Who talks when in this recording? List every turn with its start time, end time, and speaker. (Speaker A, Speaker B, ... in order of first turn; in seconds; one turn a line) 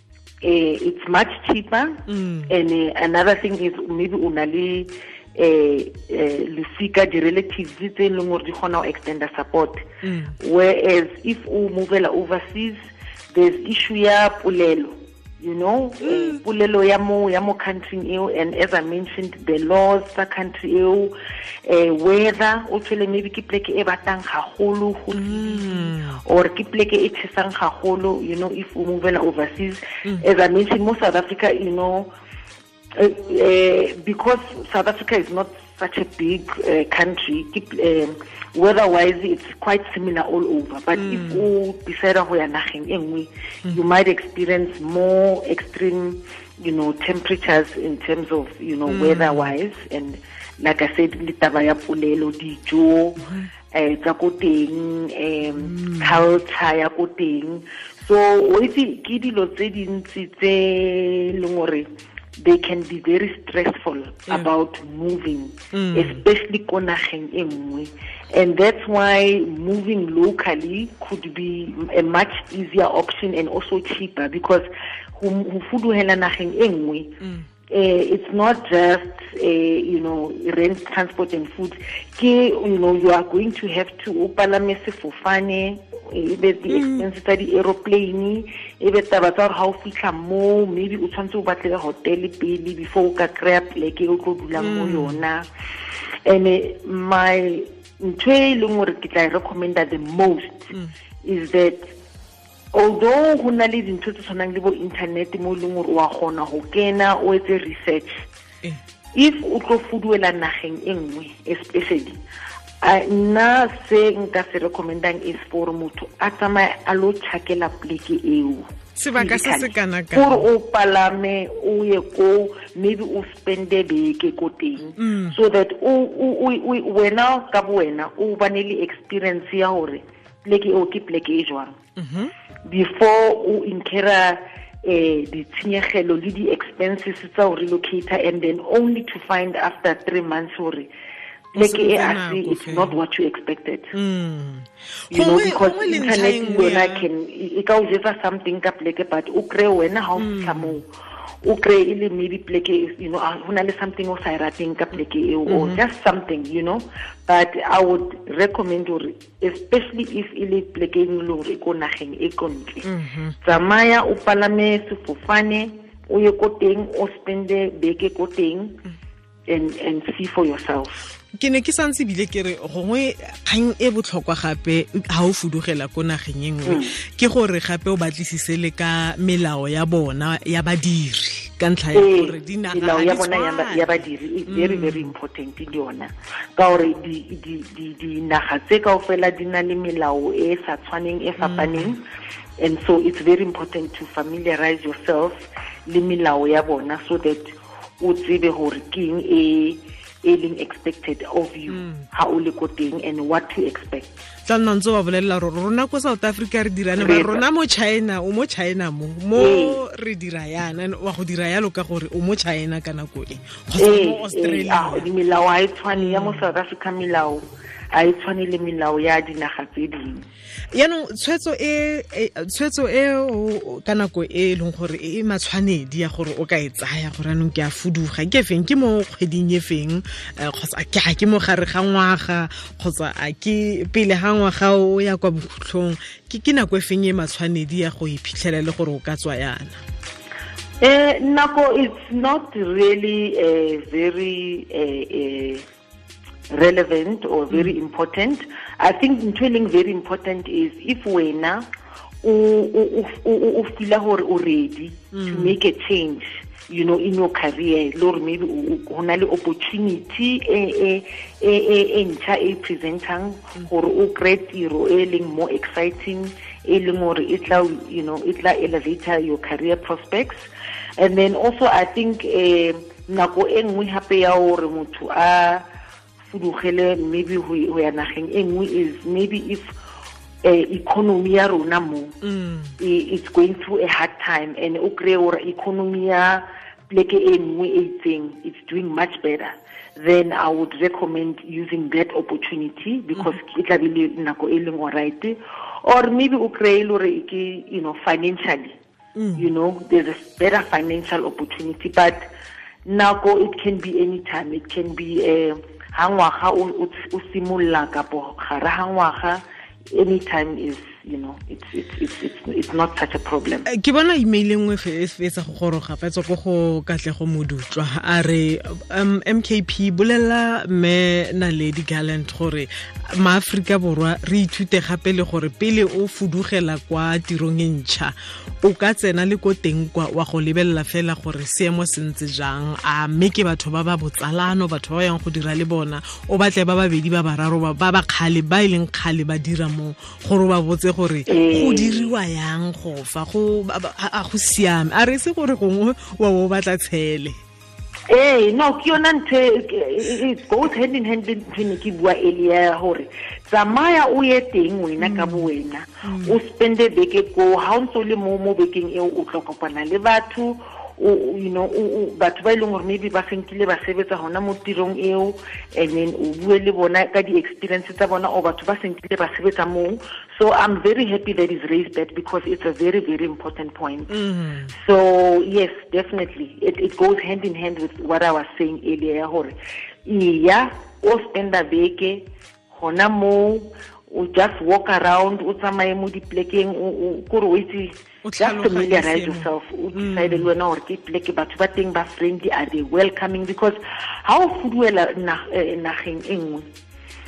Speaker A: 0.4-9.8
Speaker B: 2.1-2.5
Speaker B: 10.0-10.3
Speaker A: 10.4-12.8
Speaker A: 13.3-21.1
Speaker B: 16.0-16.4
Speaker A: 21.6-32.1
Speaker B: 25.1-26.2
Speaker A: 32.9-77.1
Speaker B: 40.9-41.5
Speaker B: 48.9-49.5
Speaker B: 55.6-56.2
Speaker B: 65.7-66.2
Speaker A: 77.7-95.5
Speaker B: 86.7-87.1
Speaker B: 94.6-95.2
Speaker A: 96.2-101.9
Speaker A: 102.7-108.2
Speaker A: 109.1-112.2
Speaker A: 112.8-131.8
Speaker B: 119.0-120.4
Speaker B: 125.0-125.4
Speaker B: 132.0-132.3
Speaker A: 132.6-140.9
Speaker A: 141.5-143.9
Speaker B: 141.6-143.0
Speaker B: 143.9-147.1
Speaker A: 145.1-150.9
Speaker B: 150.2-150.8
Speaker A: 151.4-162.9
Speaker B: 155.5-155.8
Speaker B: 162.8-163.4
Speaker A: 163.4-168.8
Speaker A: 169.5-171.0
Speaker B: 171.3-185.1
Speaker A: 176.7-176.9
Speaker A: 181.9-192.0
Speaker B: 191.4-191.9
Speaker A: 192.6-204.2
Speaker B: 201.7-202.1
Speaker B: 204.4-215.1
Speaker A: 207.0-207.4
Speaker A: 209.3-209.8
Speaker A: 213.8-220.2
Speaker B: 215.9-216.5
Speaker B: 220.7-239.8
Speaker A: 240.8-245.6
Speaker A: 246.5-251.7
Speaker B: 247.5-247.7
Speaker A: 252.2-270.4
Speaker B: 255.1-255.6
Speaker A: 271.0-275.6
Speaker A: 276.3-279.6
Speaker A: 280.4-282.2
Speaker B: 282.2-282.8
Speaker A: 282.8-298.8
Speaker B: 299.1-299.5
Speaker A: 299.4-302.3
Speaker A: 302.8-313.7
Speaker B: 313.6-347.4
Speaker A: 341.3-342.1
Speaker A: 348.1-374.1
Speaker B: 355.0-355.5
Speaker B: 356.0-356.4
Speaker B: 374.1-374.7
Speaker A: 374.7-396.6
Speaker B: 388.2-390.5